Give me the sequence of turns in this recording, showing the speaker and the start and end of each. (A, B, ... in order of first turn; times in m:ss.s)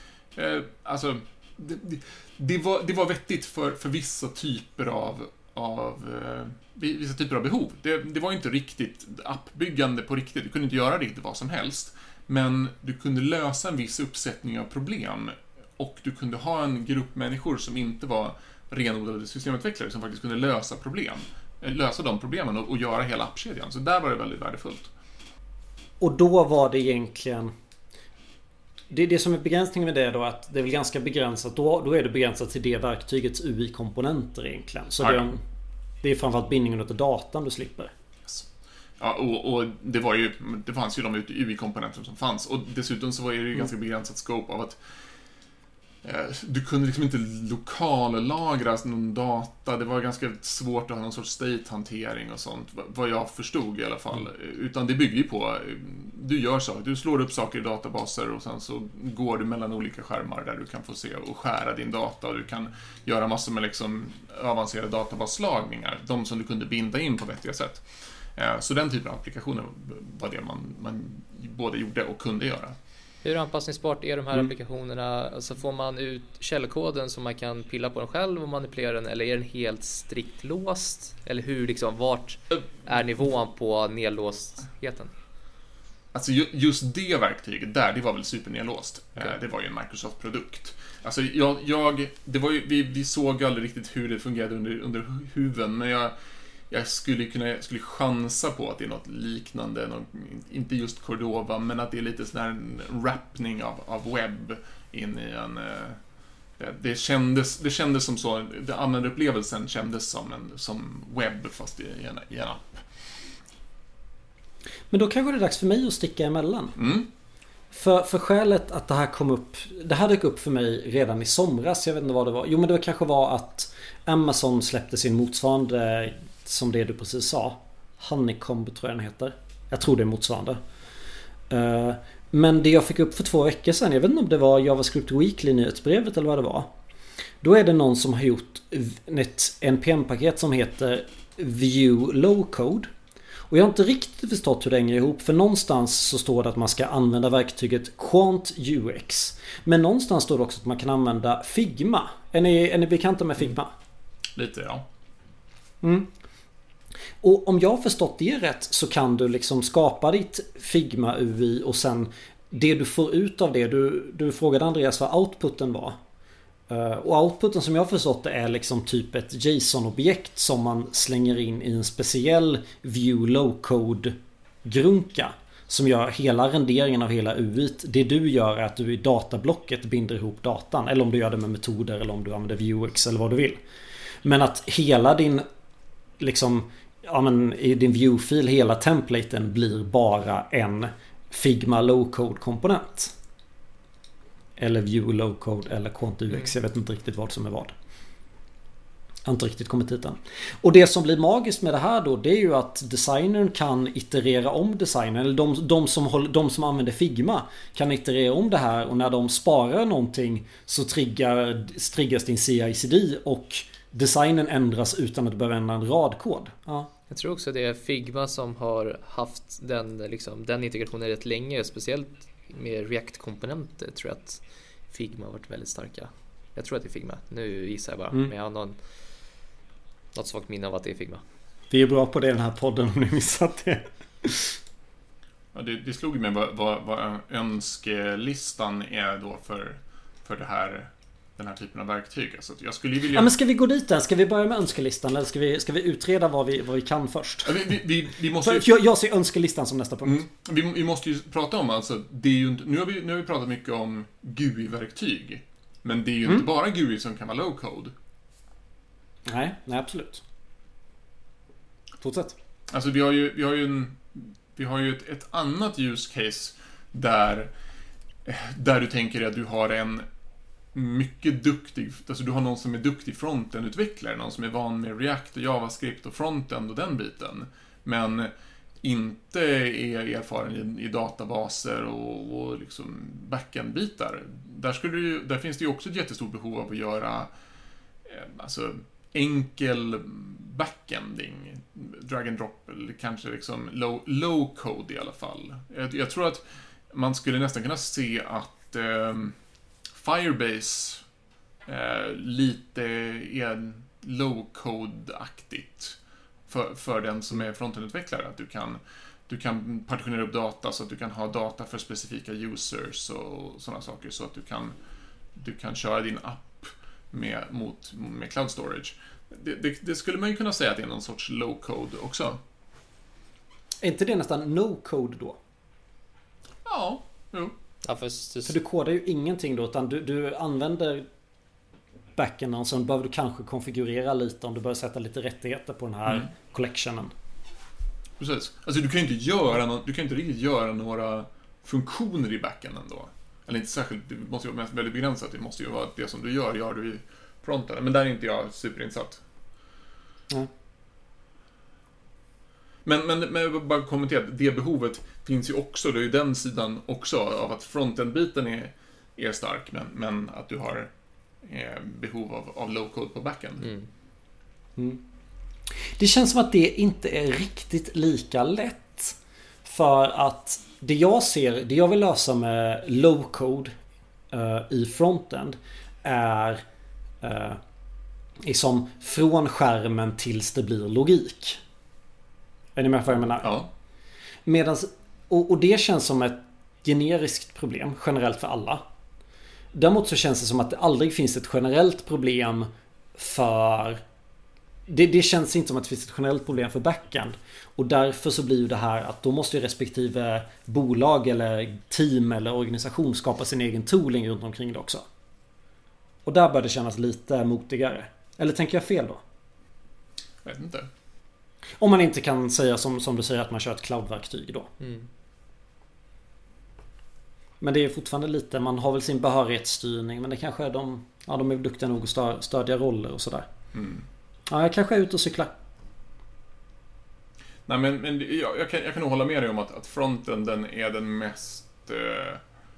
0:00.3-0:24.9 A
0:26.0-0:27.5 B
0:28.9-0:35.4 B
0:35.0-0:35.3 A
0:36.0-0:37.9 B
0:39.0-0:44.8 A
0:46.0-1:07.8 A
1:08.4-1:12.8 A
1:13.2-1:25.1 C
1:26.1-1:36.1 A
1:36.7-1:46.0 A
1:46.6-1:52.8 A
1:54.9-1:56.8 B
1:56.8-1:57.1 A
1:57.7-2:10.6 B
2:11.5-2:16.7 B
2:17.4-2:22.9 B
2:23.5-2:33.7 B
2:34.3-2:34.8 A
2:35.8-2:36.1 B
2:37.2-2:46.0 B
2:46.7-3:03.6 B
3:04.2-3:05.4 B
3:06.2-3:13.1 B
3:14.6-3:17.7 B
3:19.2-3:36.9 B
3:37.1-3:48.8 C
3:50.1-3:51.2 C
3:51.7-3:54.6 B
3:55.5-4:03.3 A
4:03.1-4:07.7 B
4:07.4-4:08.7 A
4:08.3-4:10.2 B
4:10.0-4:17.9 A
4:19.2-4:20.2 B
4:22.0-4:22.4 B
4:22.7-4:27.5 A
4:28.2-4:30.0 A
4:30.7-4:47.3 A
4:48.0-4:59.3 A
4:59.9-5:01.0 A
5:01.6-5:06.0 A
5:06.5-5:14.7 A
5:15.3-5:22.4 A
5:23.8-5:25.4 B
5:26.6-5:27.5 A
5:27.8-5:28.6 C
5:28.5-5:31.0 B
5:32.1-5:37.1 B
5:38.2-5:49.2 A
5:52.8-6:00.9 A
6:01.4-6:03.7 A
6:04.8-6:05.0 B
6:05.8-6:13.8 B
6:14.3-6:16.6 B
6:17.2-6:17.6 B
6:18.4-6:21.6 B
6:22.8-6:23.5 B
6:23.4-6:23.7 A
6:24.4-6:28.8 B
6:29.7-6:34.0 B
6:34.9-6:45.0 B
6:46.2-6:49.2 B
6:50.4-6:50.9 A
6:51.8-6:54.7 B
6:54.8-6:55.1 C
6:57.6-7:03.5 B
7:03.7-7:04.0 A
7:04.5-7:05.5 B
7:07.7-7:12.4 A